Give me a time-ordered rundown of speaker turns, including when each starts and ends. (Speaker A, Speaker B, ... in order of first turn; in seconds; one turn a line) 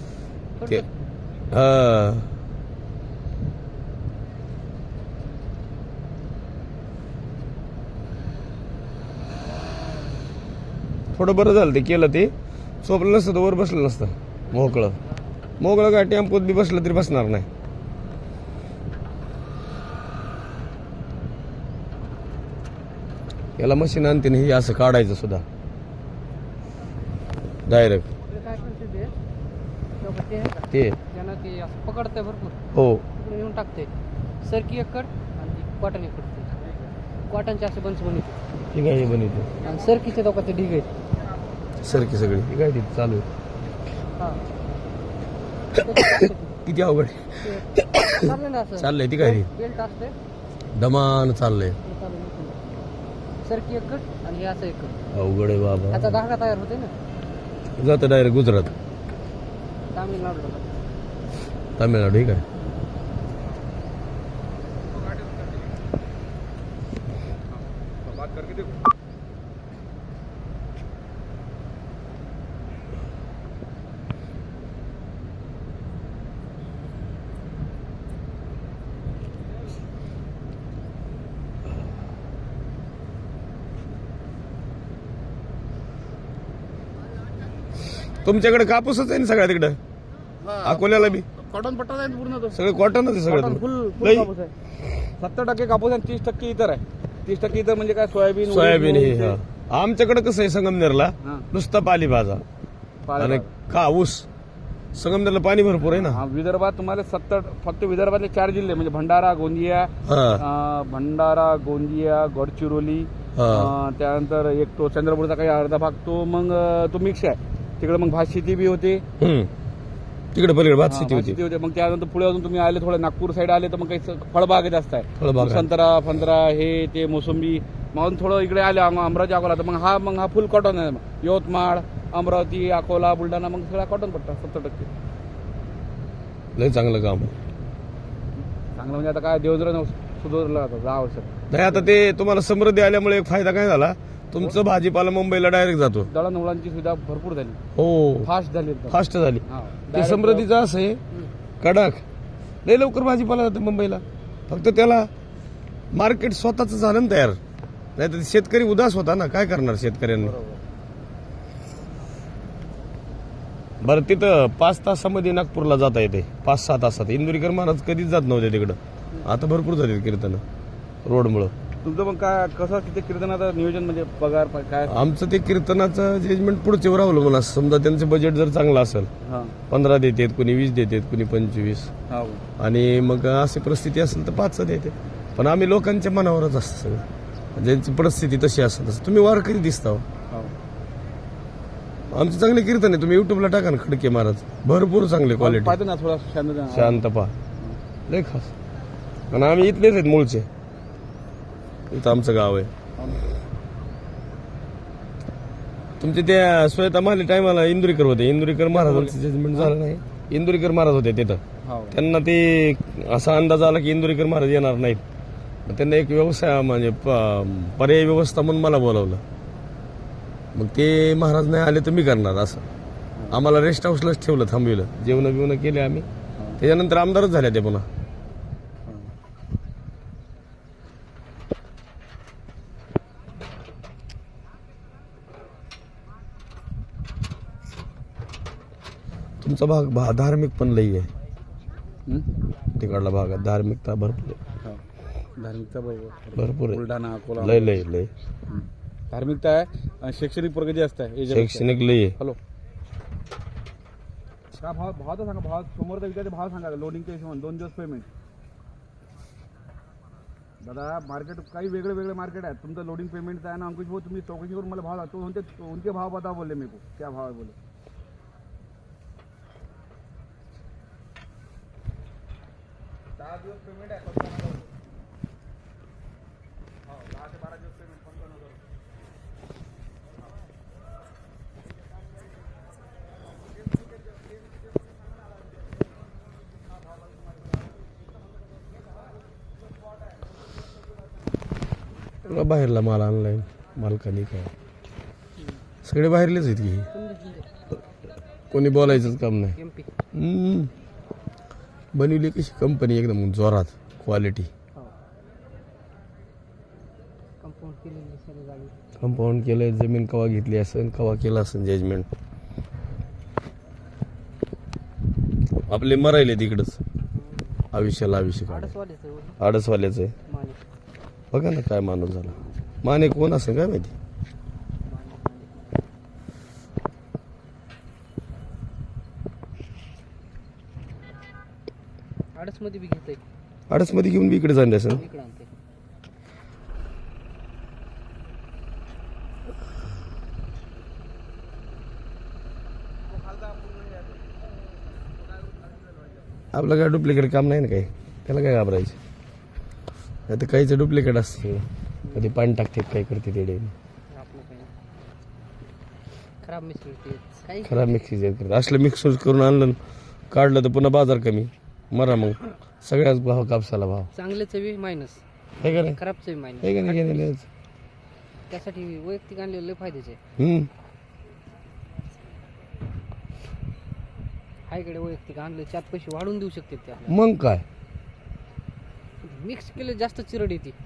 Speaker A: 0.6-0.9
Speaker B: 1.5-2.3
Speaker B: 11.1-15.0
Speaker A: 14.5-15.2
Speaker B: 15.6-17.5
Speaker B: 23.6-25.4
Speaker B: 27.7-28.1
Speaker A: 28.2-29.1
Speaker A: 30.0-32.6
Speaker B: 30.7-31.0
Speaker B: 32.7-33.0
Speaker A: 33.1-33.9
Speaker A: 34.4-36.6
Speaker A: 37.3-38.5
Speaker B: 38.7-39.5
Speaker A: 39.6-40.9
Speaker B: 41.8-43.2
Speaker A: 44.2-44.4
Speaker A: 45.7-46.6
Speaker B: 46.6-49.5
Speaker A: 47.4-50.1
Speaker B: 50.7-51.8
Speaker A: 51.8-52.8
Speaker A: 53.4-55.0
Speaker B: 55.1-56.2
Speaker A: 55.9-56.9
Speaker B: 57.8-58.7
Speaker A: 59.9-60.7
Speaker B: 61.8-62.4
Speaker C: 64.9-65.7
Speaker C: 68.0-68.8
Speaker B: 88.1-89.8
Speaker C: 90.4-92.6
Speaker B: 90.6-91.2
Speaker B: 92.5-94.3
Speaker C: 93.2-94.5
Speaker C: 95.2-99.4
Speaker B: 98.5-102.4
Speaker C: 103.1-103.5
Speaker B: 103.2-104.3
Speaker B: 104.9-106.2
Speaker C: 105.8-119.0
Speaker B: 110.0-110.4
Speaker B: 113.3-113.7
Speaker B: 119.2-119.5
Speaker B: 120.3-121.4
Speaker C: 120.8-134.9
Speaker B: 125.2-125.7
Speaker B: 136.6-137.3
Speaker C: 138.4-141.9
Speaker B: 141.5-146.1
Speaker C: 146.1-147.6
Speaker B: 147.8-148.3
Speaker C: 148.2-150.5
Speaker B: 148.9-151.0
Speaker B: 151.6-152.0
Speaker B: 152.6-155.1
Speaker B: 155.9-157.4
Speaker B: 157.9-160.3
Speaker C: 160.2-160.6
Speaker B: 163.8-170.4
Speaker B: 171.0-171.5
Speaker C: 171.8-175.0
Speaker B: 174.9-179.1
Speaker C: 179.2-179.6
Speaker B: 179.7-181.9
Speaker C: 182.1-182.4
Speaker B: 182.6-190.1
Speaker B: 192.1-195.8
Speaker C: 195.4-197.0
Speaker B: 196.7-197.3
Speaker B: 198.1-198.5
Speaker B: 199.3-200.5
Speaker B: 201.9-202.7
Speaker C: 203.0-203.2
Speaker B: 206.0-215.0
Speaker C: 208.7-209.7
Speaker C: 211.6-212.0
Speaker B: 215.7-219.2
Speaker B: 220.5-222.6
Speaker B: 223.3-226.1
Speaker B: 226.6-227.8
Speaker B: 239.4-241.1
Speaker B: 242.7-244.4
Speaker C: 245.4-247.8
Speaker B: 246.4-246.8
Speaker B: 247.4-248.1
Speaker C: 248.5-252.4
Speaker B: 251.3-252.2
Speaker C: 254.5-258.1
Speaker C: 260.6-267.6
Speaker C: 273.2-274.6
Speaker C: 276.9-278.6
Speaker B: 292.2-294.5
Speaker B: 295.8-296.9
Speaker A: 296.9-297.5
Speaker B: 298.5-299.6
Speaker A: 298.8-299.9
Speaker B: 300.1-300.7
Speaker B: 301.9-304.5
Speaker A: 307.4-308.7
Speaker B: 309.0-312.1
Speaker B: 315.7-316.8
Speaker A: 317.1-317.6
Speaker B: 317.7-318.7
Speaker A: 318.5-319.4
Speaker B: 319.4-320.1
Speaker A: 320.3-320.6
Speaker B: 321.3-323.9
Speaker A: 324.9-325.8
Speaker A: 332.3-333.2
Speaker B: 333.7-335.0
Speaker A: 334.9-335.5
Speaker B: 346.5-349.0
Speaker B: 350.3-353.7
Speaker A: 354.1-354.7
Speaker A: 356.4-358.0
Speaker B: 357.6-359.8
Speaker B: 360.3-364.1
Speaker A: 364.1-367.3
Speaker B: 365.6-366.0
Speaker B: 366.6-367.4
Speaker A: 368.5-370.2
Speaker B: 370.4-370.7
Speaker A: 374.7-377.2
Speaker B: 377.1-377.6
Speaker A: 379.2-380.7